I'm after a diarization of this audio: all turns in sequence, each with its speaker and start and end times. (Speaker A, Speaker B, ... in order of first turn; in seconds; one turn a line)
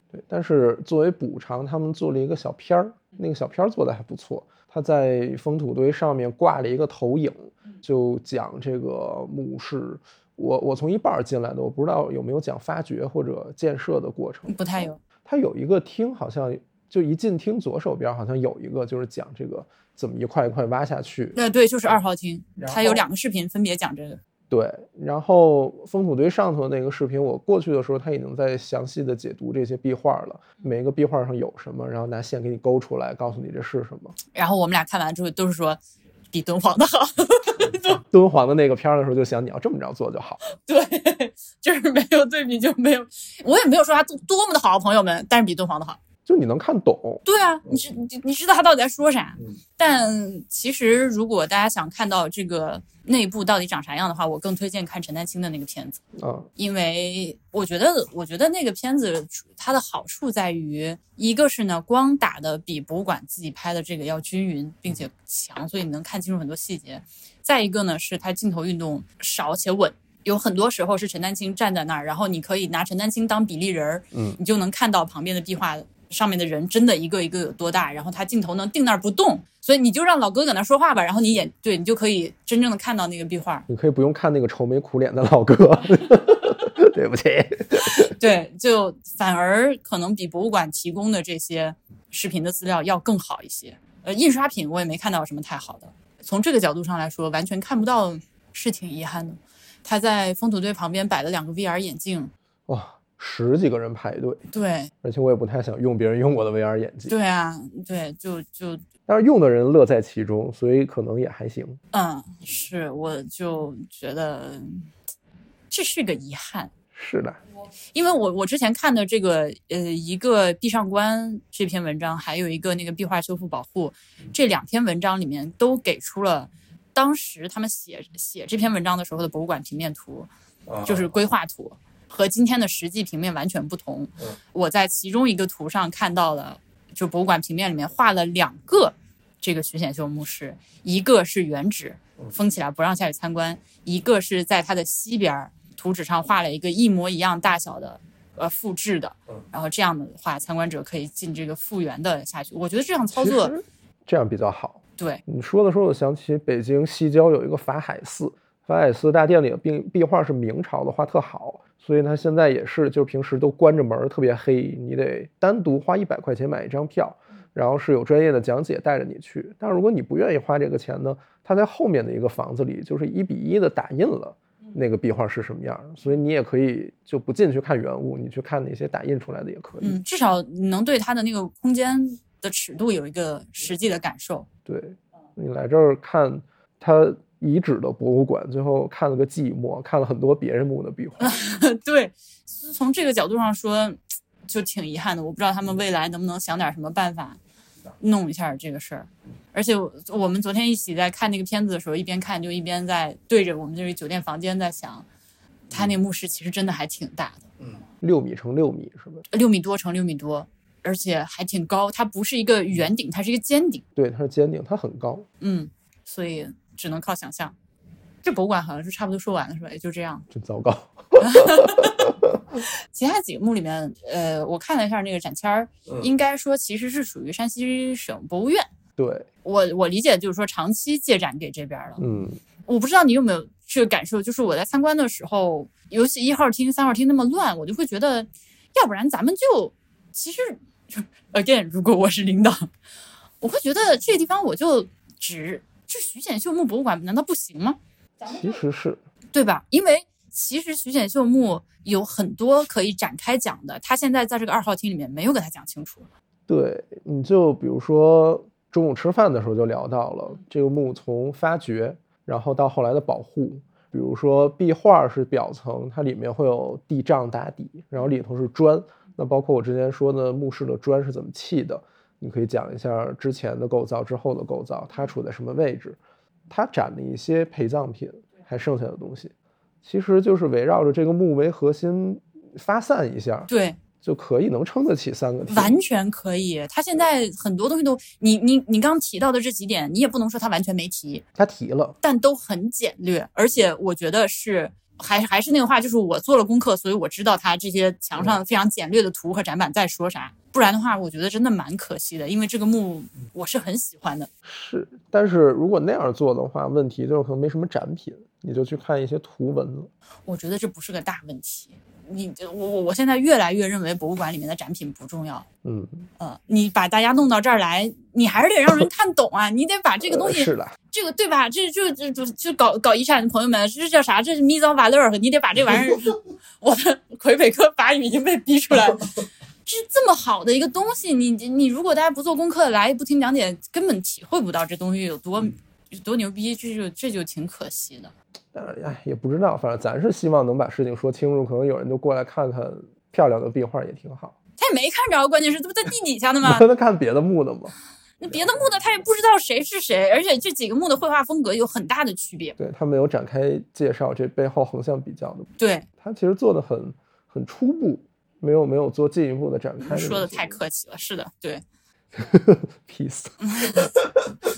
Speaker A: 0.1-21.4
Speaker B: 14.5-15.0
Speaker B: 21.3-24.2
Speaker A: 22.6-23.0
Speaker A: 24.5-34.1
Speaker B: 34.3-35.8
Speaker B: 36.3-38.0
Speaker A: 38.0-40.4
Speaker B: 40.5-46.0
Speaker A: 46.2-47.2
Speaker B: 47.2-56.0
Speaker A: 56.2-56.5
Speaker B: 56.6-83.7
Speaker A: 74.1-74.4
Speaker A: 83.7-88.1
Speaker B: 87.8-102.3
Speaker A: 102.7-104.4
Speaker B: 104.5-104.9
Speaker A: 105.0-107.1
Speaker B: 107.1-108.8
Speaker A: 109.1-111.8
Speaker B: 111.9-114.9
Speaker B: 115.7-116.7
Speaker A: 116.9-117.4
Speaker B: 117.9-130.3
Speaker A: 130.7-131.0
Speaker B: 130.8-153.5
Speaker A: 153.1-180.0
Speaker B: 179.8-184.5
Speaker A: 184.7-191.3
Speaker B: 191.2-197.4
Speaker B: 198.0-205.0
Speaker B: 205.7-207.5
Speaker A: 208.0-209.2
Speaker B: 209.3-213.8
Speaker A: 213.9-215.3
Speaker B: 215.4-217.5
Speaker B: 218.2-220.3
Speaker A: 220.3-222.6
Speaker B: 221.2-228.7
Speaker A: 229.0-229.3
Speaker B: 229.4-232.0
Speaker A: 232.0-232.4
Speaker B: 232.7-242.7
Speaker B: 243.4-248.3
Speaker A: 248.2-249.0
Speaker B: 249.3-256.1
Speaker A: 256.5-279.3
Speaker A: 279.8-285.8
Speaker B: 283.5-283.8
Speaker B: 285.5-291.2
Speaker A: 291.4-291.9
Speaker B: 292.0-304.3
Speaker A: 304.4-309.9
Speaker B: 310.3-315.4
Speaker A: 315.6-316.1
Speaker B: 316.2-338.1
Speaker A: 320.1-320.7
Speaker A: 338.5-344.3
Speaker B: 344.6-346.6
Speaker A: 346.4-347.7
Speaker B: 348.2-352.6
Speaker A: 348.3-348.6
Speaker A: 352.6-355.5
Speaker B: 355.6-355.9
Speaker A: 356.0-360.6
Speaker B: 359.8-361.6
Speaker A: 362.1-364.1
Speaker B: 363.4-363.9